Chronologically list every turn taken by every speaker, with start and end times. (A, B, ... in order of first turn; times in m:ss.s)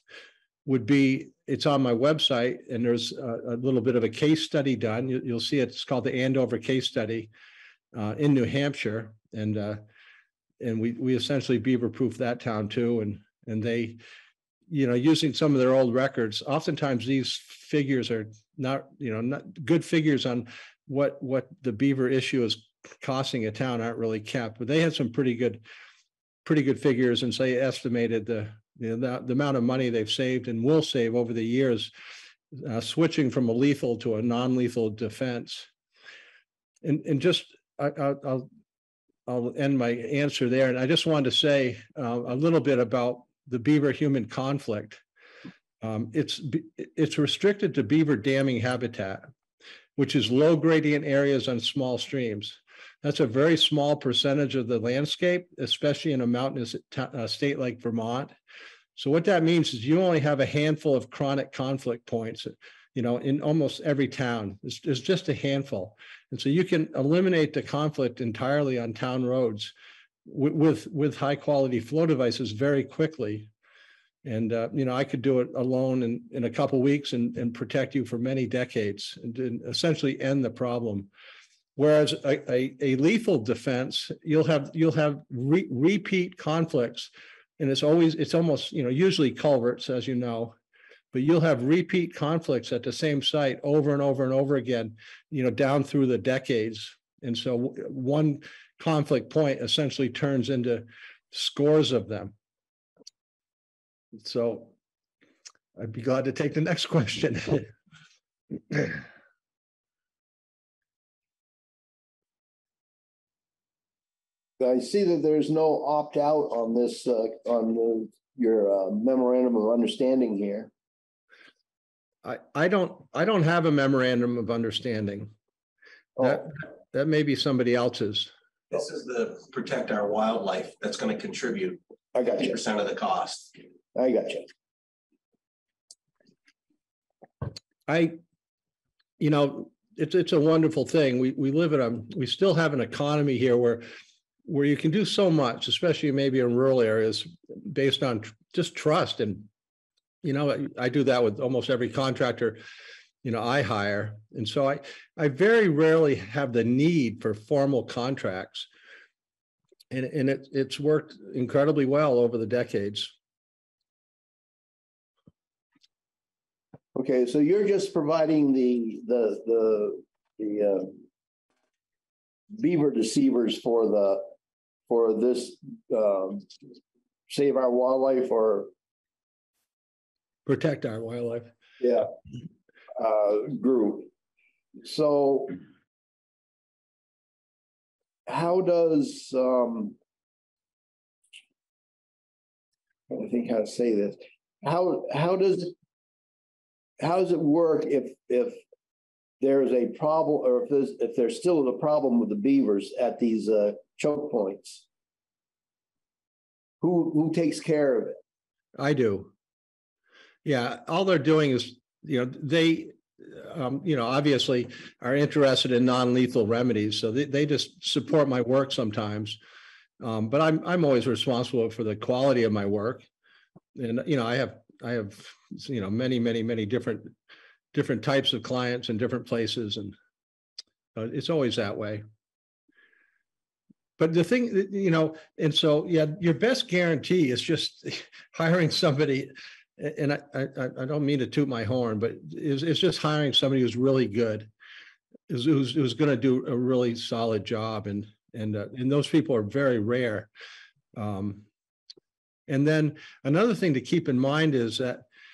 0:00.6-0:07.3 A
0:07.9-0:09.8 A
0:10.6-0:14.0 A
0:14.7-0:25.6 A
0:26.4-0:31.9 A
0:32.5-0:35.7 A
0:36.8-0:38.5 A
0:39.3-0:45.0 A
0:45.8-0:49.3 A
0:50.0-0:58.3 A
0:59.0-1:09.7 A
1:10.2-1:13.5 A
1:14.2-1:21.1 A
1:21.8-1:30.6 A
1:31.1-1:42.3 A
1:44.1-1:44.7 A
1:45.8-1:47.7 A
1:54.6-2:00.7 B
2:02.2-2:05.3 A
2:06.2-2:06.4 B
2:06.2-2:08.3 A
2:08.7-2:13.5 C
2:12.1-2:12.6 B
2:13.9-2:14.4 B
2:17.9-2:18.2 A
2:19.2-2:23.8 A
2:24.4-2:29.5 A
2:30.2-2:32.6 A
2:33.2-2:38.7 A
2:39.9-2:43.1 A
2:46.9-2:51.0 B
2:52.5-2:54.3 B
2:54.9-2:56.5 B
2:57.3-2:58.7 B
3:00.4-3:01.5 A
3:01.8-3:02.1 B
3:03.0-3:04.1 B
3:04.8-3:05.6 B
3:08.3-3:10.0 B
3:13.1-3:15.7 B
3:17.0-3:18.6 B
3:19.4-3:24.8 B
3:26.8-3:28.2 B
3:28.8-3:29.3 A
3:30.4-3:39.4 A
3:40.0-3:43.0 A
3:43.8-3:47.1 A
3:47.7-3:49.9 A
3:50.9-3:52.0 A
3:54.0-4:04.5 A
4:05.3-4:10.3 A
4:10.9-4:11.5 A
4:12.5-4:15.0 A